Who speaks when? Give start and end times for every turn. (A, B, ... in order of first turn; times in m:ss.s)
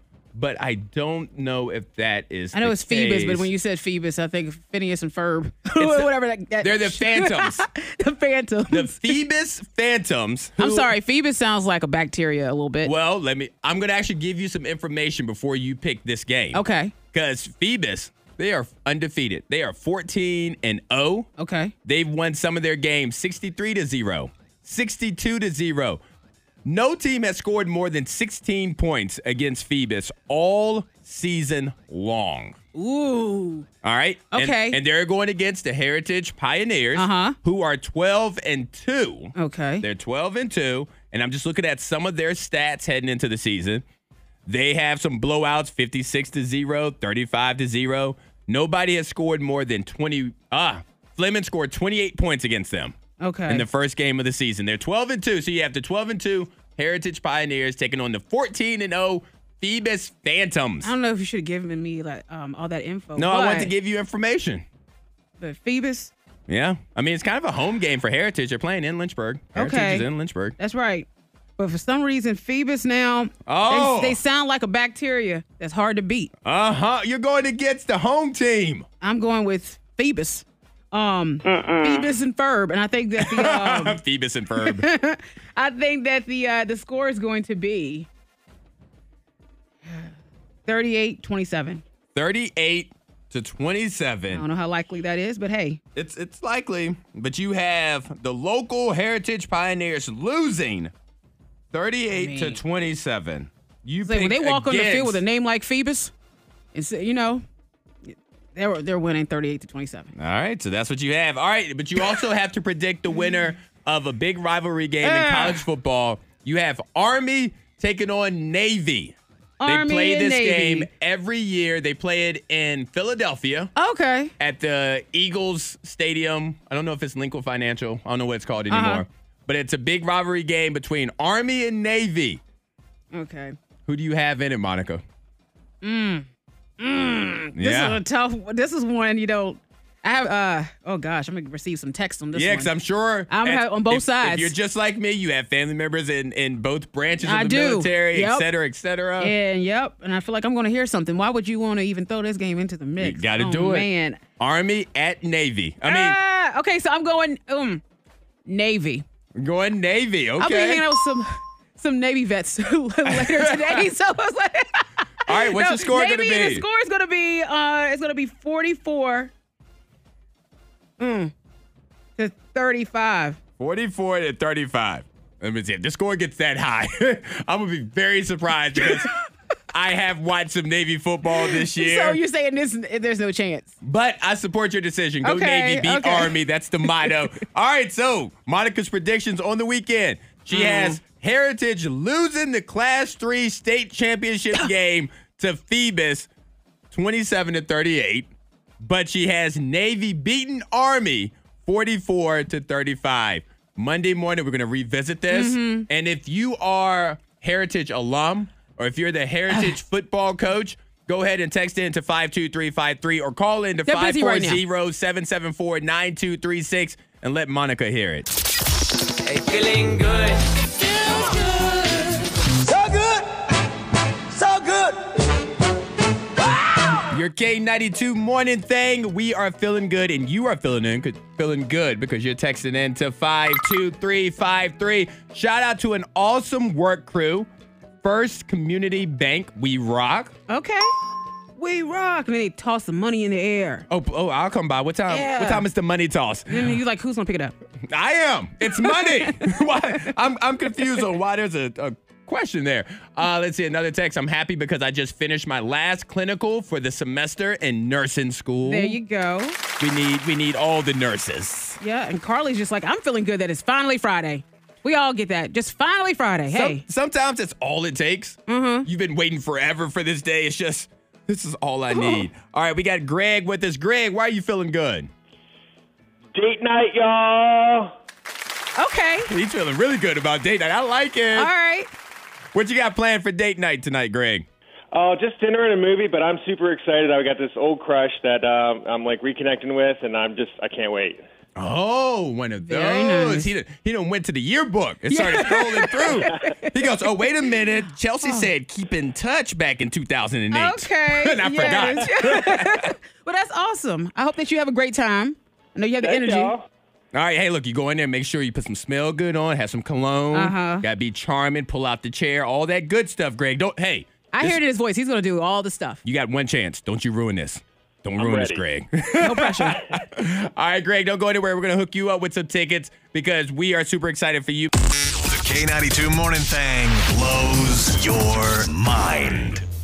0:00.3-0:03.5 A
0:02.5-0:09.2 B
0:05.8-0:07.6 A
0:08.7-0:10.9 A
0:10.6-0:12.9 B
0:12.8-0:21.3 A
0:16.5-0:16.9 B
0:21.4-0:21.7 B
0:21.8-0:26.0 A
0:26.6-0:32.6 A
0:32.7-0:33.7 B
0:33.8-0:43.8 A
0:34.3-0:34.8 B
0:36.9-0:37.4 B
0:39.4-0:39.8 B
0:44.4-0:53.0 A
0:53.2-0:53.6 B
0:53.5-1:00.9 A
1:00.8-1:03.7 B
1:03.2-1:04.6 A
1:05.4-1:06.1 B
1:06.5-1:10.5 A
1:09.5-1:10.1 B
1:10.6-1:11.1 B
1:11.6-1:16.3 B
1:13.4-1:14.2 A
1:16.4-1:18.8 A
1:19.0-1:24.0 B
1:23.2-1:24.9 A
1:24.6-1:28.1 B
1:30.6-1:31.8 B
1:32.1-1:34.4 A
1:34.3-1:35.8 B
1:35.9-1:40.9 A
1:41.7-1:45.2 A
1:42.1-1:42.6 B
1:44.0-1:46.1 B
1:46.7-1:47.4 B
1:48.0-1:50.1 B
1:50.1-2:03.7 A
1:55.0-1:55.6 B
1:59.6-2:00.9 B
2:03.8-2:04.3 B
2:04.4-2:12.4 A
2:08.7-2:09.0 B
2:13.1-2:13.6 B
2:13.8-2:15.0 A
2:15.8-2:16.3 B
2:16.8-2:22.7 B
2:17.6-2:18.0 A
2:22.3-2:29.3 A
2:23.3-2:24.5 B
2:27.2-2:28.5 B
2:29.2-2:34.2 B
2:33.0-2:36.2 A
2:35.8-2:37.8 B
2:38.4-2:39.0 B
2:39.4-2:40.8 A
2:40.4-2:49.3 B
2:43.0-2:43.9 A
2:45.3-2:46.6 A
2:51.0-2:51.3 B
2:52.2-2:53.4 B
2:53.6-2:59.1 A
2:59.7-3:02.2 A
3:01.4-3:03.7 B
3:03.8-3:16.3 A
3:05.2-3:07.1 B
3:10.5-3:11.0 B
3:16.9-3:38.3 A
3:25.3-3:25.9 B
3:33.8-3:34.6 B
3:39.3-3:43.2 C
3:44.3-3:45.0 C
3:47.1-3:57.5 A
3:58.0-4:00.3 A
4:00.5-4:00.9 B
4:01.6-4:03.8 B
4:03.9-4:06.8 A
4:05.1-4:05.6 B
4:06.5-4:07.5 B
4:07.9-4:19.0 A
4:08.6-4:09.6 B
4:18.6-4:19.6 B
4:19.8-4:21.8 A
4:21.8-4:26.8 B
4:26.5-4:35.1 A
4:28.5-4:28.9 B
4:31.9-4:32.2 B
4:36.3-4:37.9 D
4:38.8-4:39.3 B
4:39.3-4:41.5 A
4:41.3-4:41.9 B
4:42.5-4:44.5 A
4:44.9-4:51.2 D
4:51.6-5:02.9 A
4:52.6-4:53.5 B
4:55.1-4:56.9 B
5:00.5-5:06.5 B
5:06.0-5:06.6 D
5:07.1-5:14.6 A
5:10.3-5:10.8 B
5:14.3-5:16.0 B
5:16.0-5:24.7 A
5:18.2-5:18.6 D
5:19.2-5:19.8 B
5:25.1-5:29.6 E